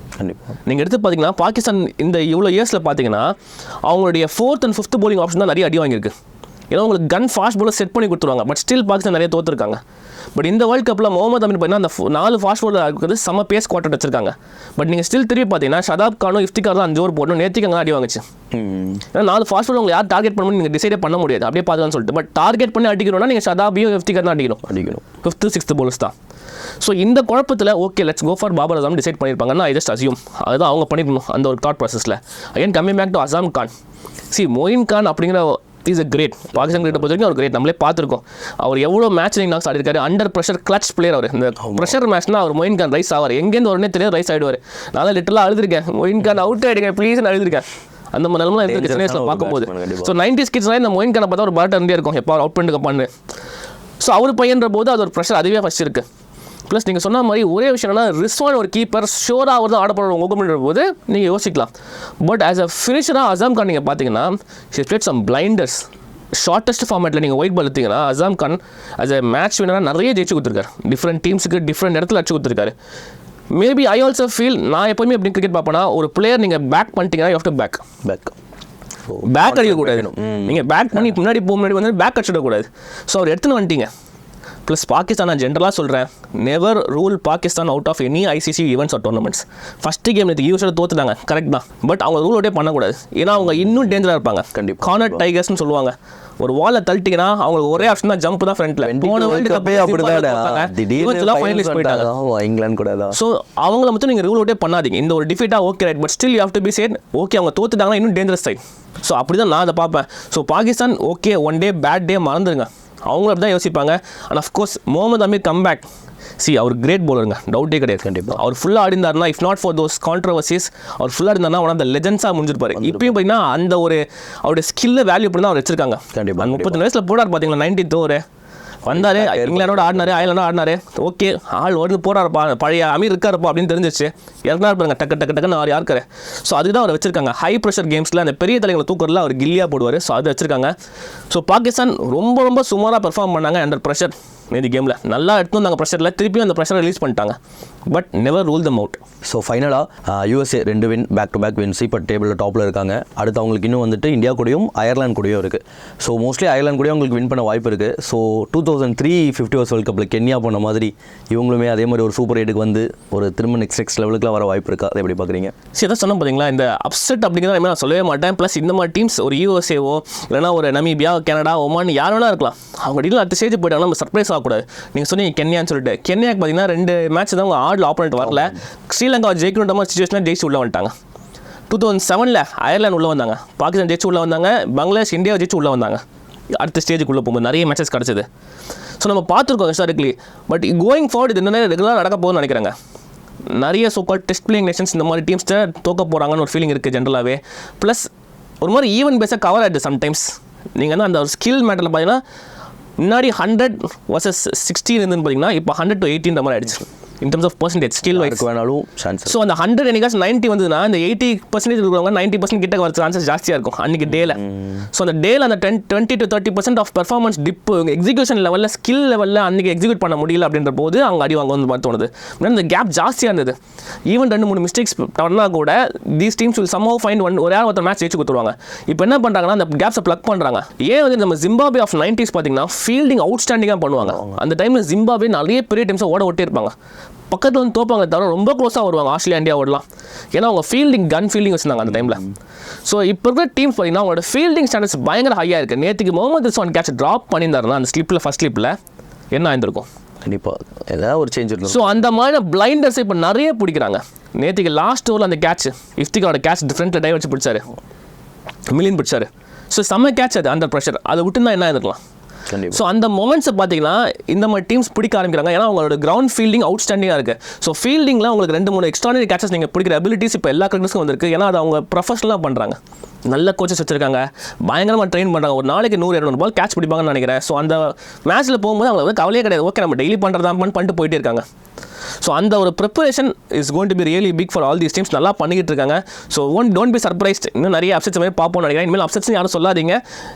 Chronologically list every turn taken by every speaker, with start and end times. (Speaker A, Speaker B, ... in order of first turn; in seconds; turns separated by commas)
Speaker A: 0.2-0.6, Speaker B: 0.7-3.3, Speaker B: 3.9-6.1, Speaker B: 6.7-9.8, Speaker B: 10.3-18.2, Speaker A: 18.5-19.0, Speaker B: 19.1-24.6, Speaker A: 24.6-25.0, Speaker B: 25.2-26.1, Speaker B: 26.8-33.7, Speaker B: 34.3-53.1, Speaker A: 41.6-42.0, Speaker A: 48.6-50.1, Speaker B: 54.0-56.0, Speaker B: 56.7-61.7, Speaker B: 62.2-72.7, Speaker B: 73.5-77.8, Speaker A: 78.0-78.3, Speaker A: 79.1-80.6, Speaker B: 79.2-83.9, Speaker B: 84.7-102.1, Speaker A: 94.5-95.2, Speaker A: 98.8-103.2, Speaker B: 103.1-115.9, Speaker B: 116.4-128.2, Speaker A: 118.0-118.4, Speaker A: 122.8-123.2, Speaker A: 126.1-126.8, Speaker B: 128.9-140.7, Speaker A: 128.9-130.3, Speaker B: 141.3-147.4, Speaker B: 147.9-149.0, Speaker A: 149.2-165.5, Speaker B: 165.8-180.9, Speaker A: 178.2-178.5, Speaker B: 181.7-186.0, Speaker B: 186.6-188.2, Speaker B: 189.0-192.7, Speaker B: 193.5-198.1, Speaker B: 198.6-202.2, Speaker B: 203.0-208.4, Speaker A: 208.1-209.4, Speaker B: 209.2-223.5, Speaker B: 224.1-236.7, Speaker B: 237.3-242.2, Speaker B: 242.9-248.8, Speaker B: 249.3-249.9, Speaker A: 250.2-252.0, Speaker B: 251.7-257.6, Speaker B: 258.7-262.0, Speaker A: 262.5-262.8, Speaker B: 262.7-281.4, Speaker B: 282.2-290.0